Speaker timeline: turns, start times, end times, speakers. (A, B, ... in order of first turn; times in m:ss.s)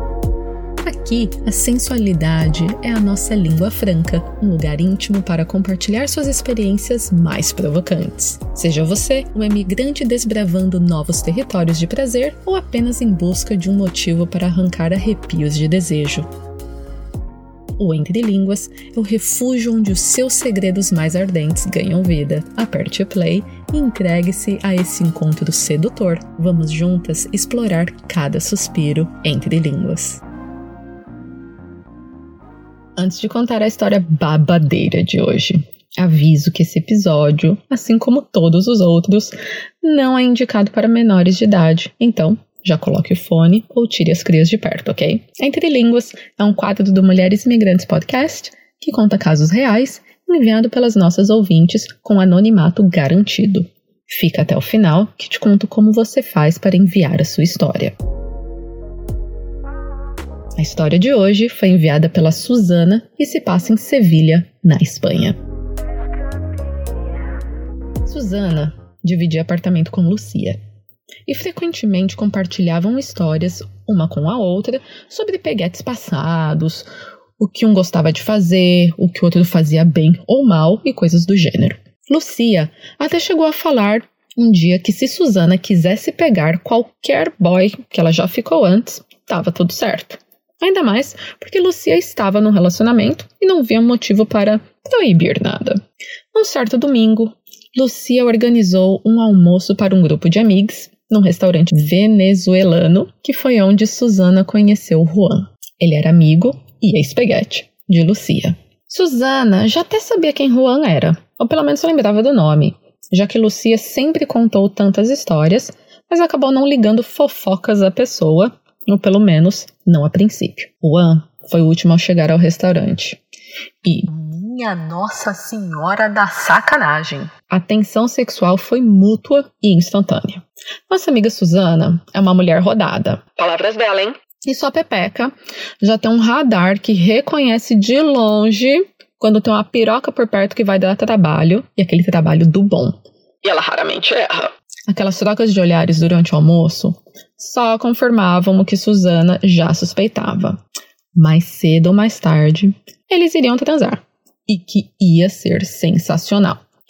0:00.8-0:16.3 A
0:17.8-0:30.2 A
0:33.0-0:57.9 A
1:00.6-1:05.4 A
1:08.0-1:10.6 A
1:11.2-1:16.9 A
1:17.4-1:35.8 A
1:36.3-2:03.2 A
2:03.8-2:30.6 A
2:31.1-2:36.6 A